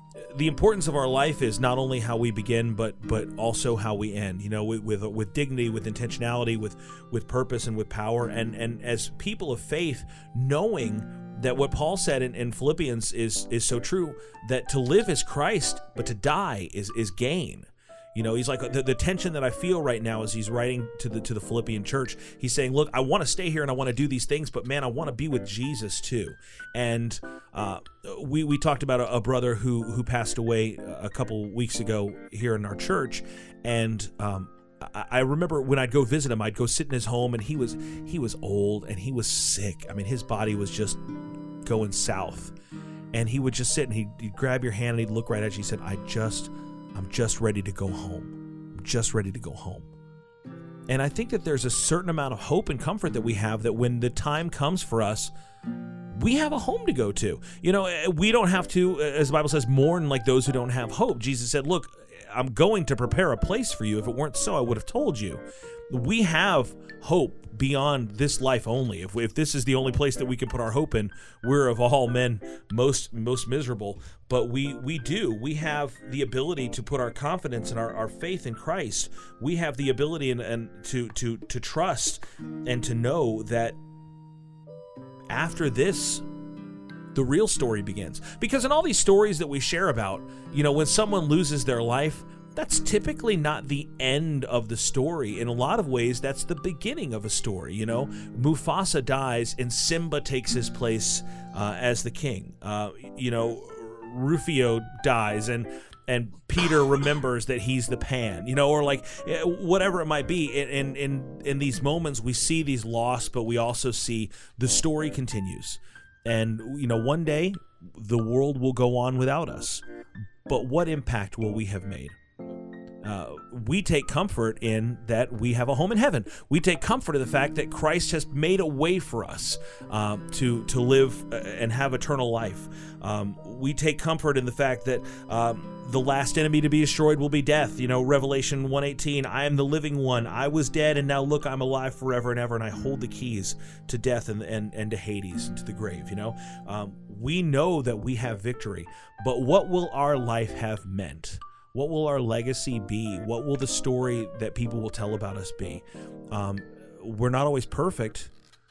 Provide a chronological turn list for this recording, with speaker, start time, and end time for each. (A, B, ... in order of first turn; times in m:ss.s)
0:00.2-0:41.0 A
0:41.6-0:42.5 A
0:43.1-0:49.9 A
0:50.9-0:55.3 A
0:56.1-1:23.8 A
1:25.3-1:26.2 A
1:27.1-1:59.8 A
2:00.5-2:02.1 A
2:03.0-2:38.3 A